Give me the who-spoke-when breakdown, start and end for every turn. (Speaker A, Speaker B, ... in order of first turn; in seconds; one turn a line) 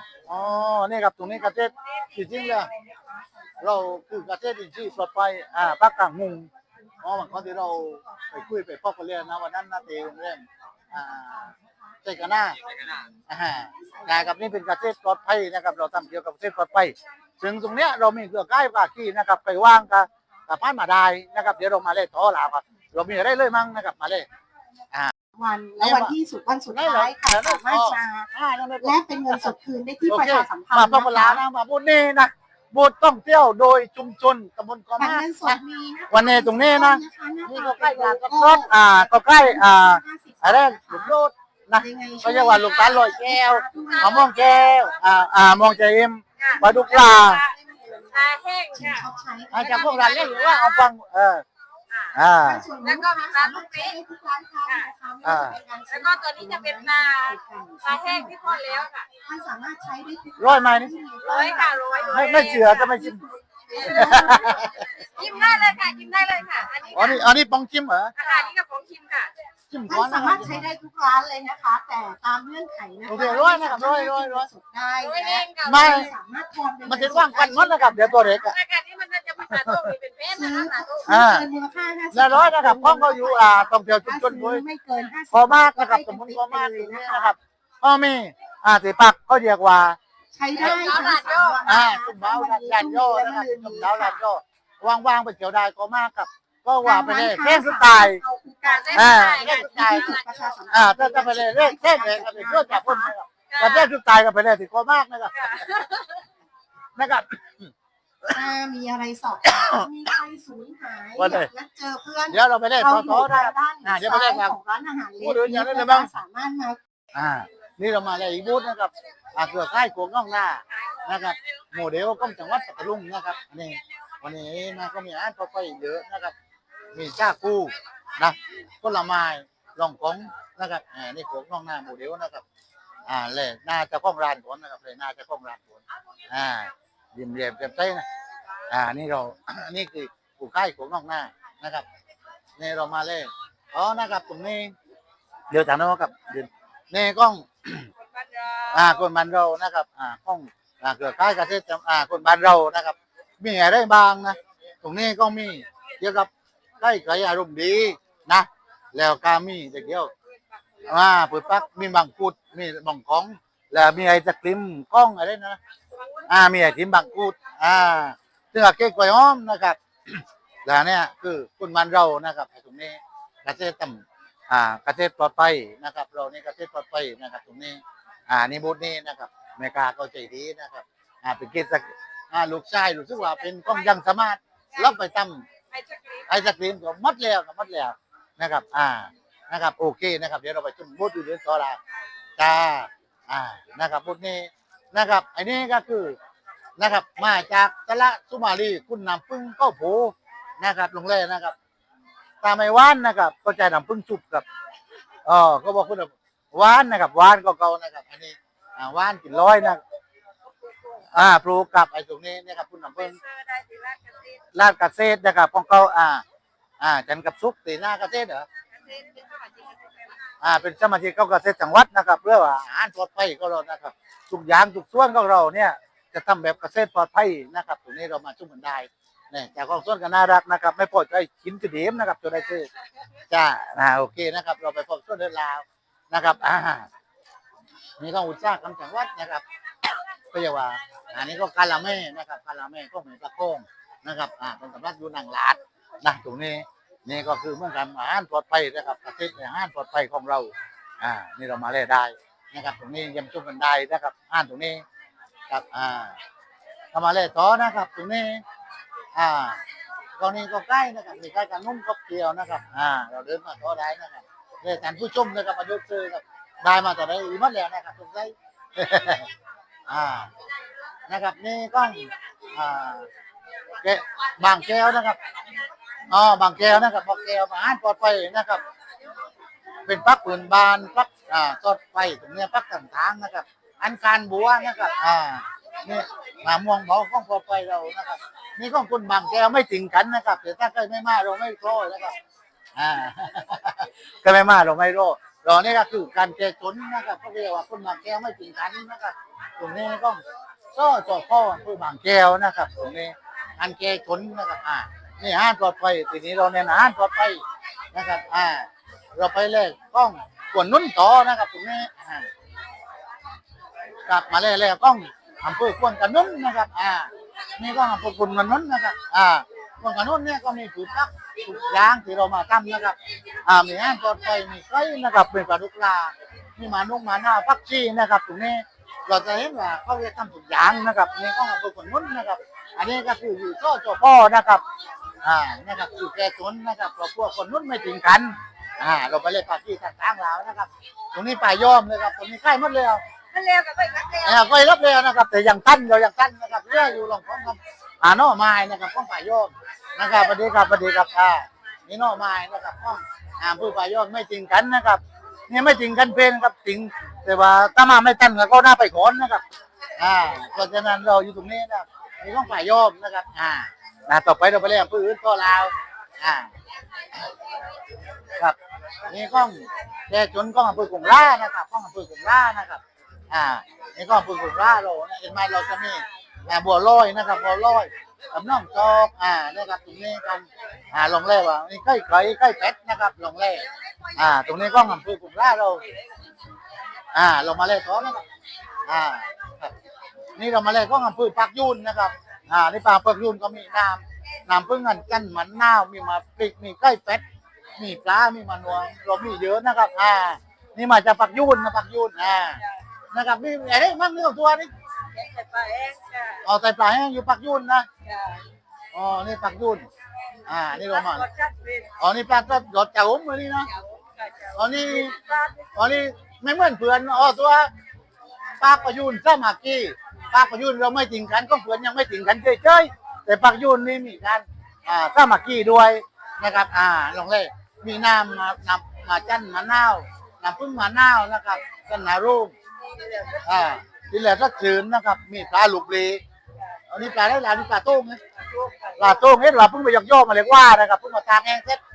Speaker A: 0.3-2.7
Speaker B: 2.7-3.7
Speaker A: 3.6-6.5
Speaker B: 6.9-8.3
Speaker A: 7.0-11.5
Speaker B: 11.0-12.2
Speaker A: 12.0-12.6
Speaker A: 13.3-24.3
Speaker B: 13.6-14.5
Speaker B: 25.4-28.3
Speaker A: 25.8-26.2
Speaker A: 26.7-29.5
Speaker B: 28.8-31.4
Speaker A: 30.1-47.5
Speaker B: 35.0-41.1
Speaker B: 41.8-44.5
Speaker C: 43.9-45.2
Speaker C: 46.4-47.5
Speaker B: 46.5-48.2
Speaker C: 48.1-49.1
Speaker B: 48.7-50.4
Speaker A: 49.5-51.4
Speaker C: 49.9-50.9
Speaker A: 52.1-52.7
Speaker B: 52.4-67.3
Speaker C: 52.8-54.0
Speaker A: 55.2-55.6
Speaker C: 55.9-59.1
Speaker A: 60.4-60.9
Speaker C: 61.2-62.7
Speaker A: 62.0-63.2
Speaker C: 63.8-67.2
Speaker A: 63.8-64.8
Speaker A: 66.9-68.1
Speaker C: 68.2-69.3
Speaker A: 69.7-70.7
Speaker B: 69.9-78.5
Speaker A: 73.1-74.5
Speaker C: 75.0-76.1
Speaker A: 75.6-76.1
Speaker A: 76.9-78.5
Speaker C: 78.4-81.0
Speaker A: 79.5-79.8
Speaker B: 80.3-87.3
Speaker A: 81.1-81.5
Speaker A: 82.1-84.6
Speaker A: 85.3-90.0
Speaker B: 90.3-94.2
Speaker C: 90.6-91.6
Speaker A: 90.6-90.9
Speaker A: 91.7-98.2
Speaker B: 96.8-103.1
Speaker C: 98.6-100.6
Speaker A: 98.9-105.7
Speaker C: 103.5-103.9
Speaker C: 105.4-106.2
Speaker A: 107.0-107.7
Speaker B: 108.3-116.8
Speaker A: 109.5-109.9
Speaker A: 111.2-111.5
Speaker A: 112.3-114.6
Speaker A: 115.2-116.1
Speaker A: 117.1-126.3
Speaker A: 126.9-132.4
Speaker A: 133.1-138.1
Speaker A: 138.7-141.9
Speaker A: 142.6-144.7
Speaker A: 145.5-147.9
Speaker C: 148.1-148.9
Speaker A: 148.7-160.1
Speaker C: 160.7-161.5
Speaker A: 160.8-165.6
Speaker A: 166.3-185.4
Speaker C: 185.7-186.3
Speaker A: 186.3-191.8
Speaker A: 192.4-196.2
Speaker A: 196.8-201.6
Speaker A: 202.4-204.5
Speaker A: 205.2-209.8
Speaker A: 211.1-213.2
Speaker C: 213.0-214.4
Speaker A: 214.5-216.2
Speaker A: 216.8-218.5
Speaker C: 218.7-220.2
Speaker A: 220.4-232.7
Speaker A: 233.3-236.9
Speaker A: 238.0-239.4
Speaker A: 240.3-254.8
Speaker A: 255.5-256.2
Speaker A: 256.9-258.4
Speaker A: 259.1-259.6
Speaker A: 260.2-269.3
Speaker A: 269.9-270.3
Speaker A: 271.1-273.1
Speaker A: 273.8-275.2
Speaker A: 276.1-278.6
Speaker A: 279.9-292.1
Speaker A: 292.8-307.4
Speaker A: 307.9-312.3
Speaker A: 314.1-334.6
Speaker A: 335.2-343.0
Speaker C: 343.3-344.4
Speaker A: 344.2-359.4
Speaker A: 360.0-366.5
Speaker A: 368.3-385.9
Speaker C: 383.9-384.8
Speaker A: 387.1-388.2
Speaker A: 388.9-389.7
Speaker A: 390.4-397.2
Speaker A: 397.8-404.7
Speaker C: 405.1-406.4
Speaker A: 406.4-407.9
Speaker C: 408.0-408.4
Speaker A: 408.9-409.9
Speaker A: 410.5-411.3
Speaker C: 410.7-411.9
Speaker A: 412.0-413.7
Speaker C: 413.7-415.7
Speaker A: 414.5-417.7
Speaker A: 418.6-432.6
Speaker C: 433.0-433.4
Speaker A: 433.4-436.2
Speaker A: 436.9-438.2
Speaker C: 438.5-438.9
Speaker A: 439.0-441.8